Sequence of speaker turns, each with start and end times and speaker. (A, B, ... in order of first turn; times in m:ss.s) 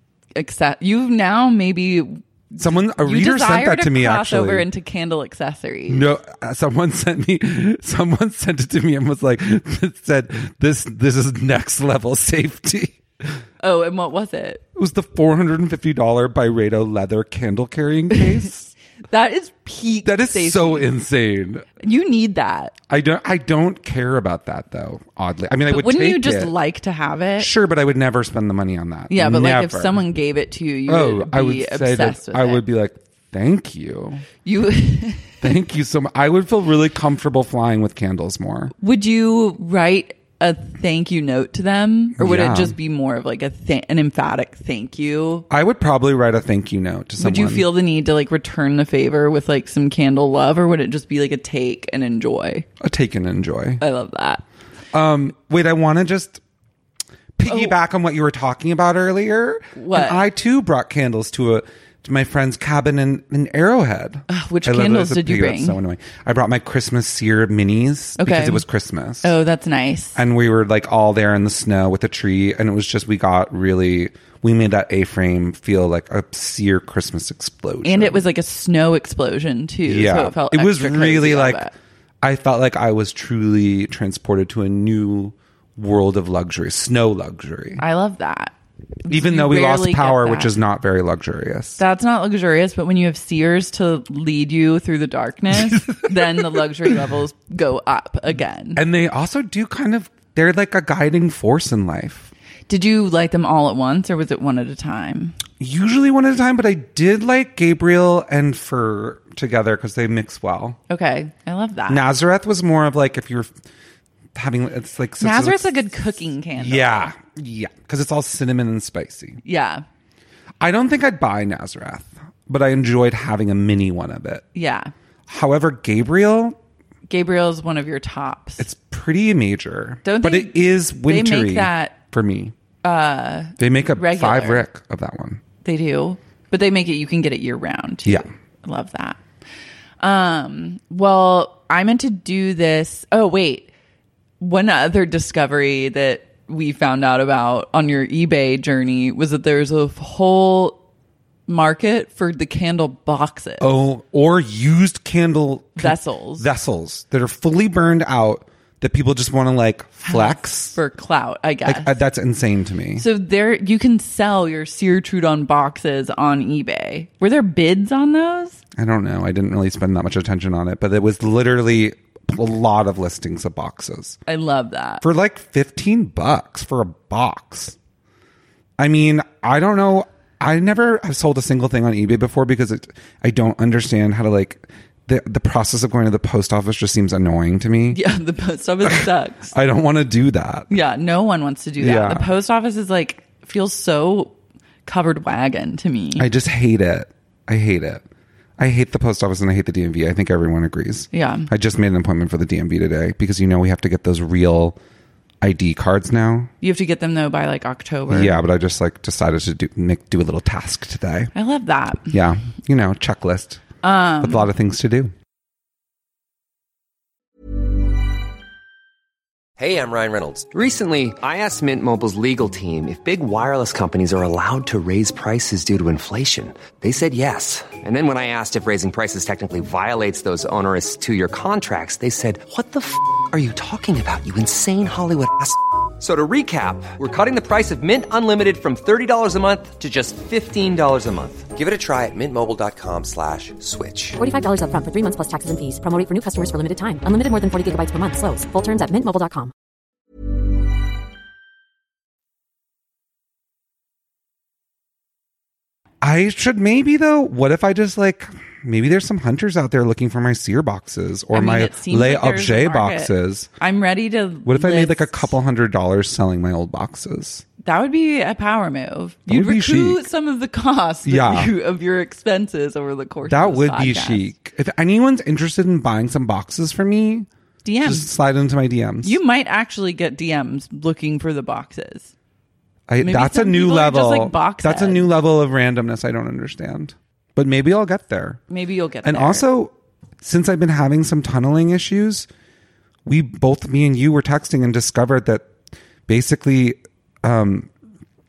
0:00.4-0:06.0 A
0:02.6-0:04.6 B
0:05.9-0:13.0 B
0:13.6-0:14.6 A
0:14.7-0:18.7 B
0:19.1-0:20.9 A
0:20.0-0:21.7 B
0:21.8-0:22.7 A
0:22.9-0:26.5 B
0:25.7-0:27.5 A
0:27.4-0:30.0 B
0:29.1-0:32.6 A
0:30.9-0:34.2 B
0:34.4-0:35.5 A
0:35.4-0:38.7 B
0:38.8-0:45.4 A
0:42.2-0:42.7 B
0:45.5-0:47.7 B
0:47.2-0:52.6 A
0:52.8-0:53.8 B
0:53.8-0:54.4 A
0:54.9-0:56.4 B
0:57.4-1:09.3 B
0:57.4-0:57.7 A
0:59.7-1:00.2 A
1:04.3-1:05.8 A
1:08.2-1:08.6 A
1:09.2-1:10.2 A
1:10.2-1:18.2 B
1:17.8-1:21.7 A
1:19.8-1:21.6 B
1:22.2-1:27.8 B
1:27.8-1:28.5 A
1:29.0-1:30.5 A
1:29.1-1:31.8 B
1:31.8-1:38.8 A
1:35.5-1:36.3 B
1:38.8-1:42.3 B
1:42.7-1:45.4 A
1:45.6-1:50.8 B
1:50.9-1:52.0 A
1:51.9-1:53.5 B
1:54.3-1:55.8 B
1:55.2-1:57.1 A
1:56.6-1:59.4 B
1:59.4-1:59.8 A
2:00.6-2:04.4 B
2:04.5-2:04.9 A
2:05.3-2:06.6 B
2:07.1-2:08.7 A
2:08.6-2:12.5 B
2:10.0-2:12.0 A
2:12.8-2:14.6 A
2:13.6-2:15.4 B
2:15.6-2:19.2 A
2:20.0-2:23.7 A
2:24.4-2:30.8 A
2:31.5-2:33.7 A
2:33.6-2:40.8 B
2:35.8-2:36.5 A
2:40.0-2:42.0 A
2:41.6-2:43.0 B
2:43.0-2:48.6 A
2:48.8-2:54.2 B
2:54.3-2:55.0 A
2:55.0-2:57.8 B
2:58.8-3:08.0 B
3:07.9-3:09.5 A
3:08.8-3:10.7 B
3:10.7-3:14.3 A
3:11.8-3:12.3 B
3:14.8-3:16.2 A
3:16.2-3:18.0 B
3:18.6-3:24.8 B
3:21.1-3:21.5 A
3:25.4-3:26.5 B
3:26.6-3:28.4 A
3:28.1-3:31.3 B
3:31.3-3:32.1 A
3:32.1-3:33.6 B
3:33.8-3:34.5 A
3:34.2-3:35.1 B
3:39.6-4:04.2 C
4:04.2-4:09.5 D
4:16.0-4:23.5 B
4:21.3-4:25.3 A
4:24.4-4:27.4 B
4:27.6-4:34.3 A
4:29.3-4:30.0 B
4:31.0-4:31.5 B
4:33.3-4:37.3 B
4:37.6-4:38.1 A
4:37.8-4:39.2 B
4:39.0-4:42.1 A
4:42.9-4:48.4 B
4:43.0-4:45.1 A
4:48.5-4:49.4 A
4:49.0-4:52.3 B
4:53.0-4:55.4 B
4:56.1-4:57.7 B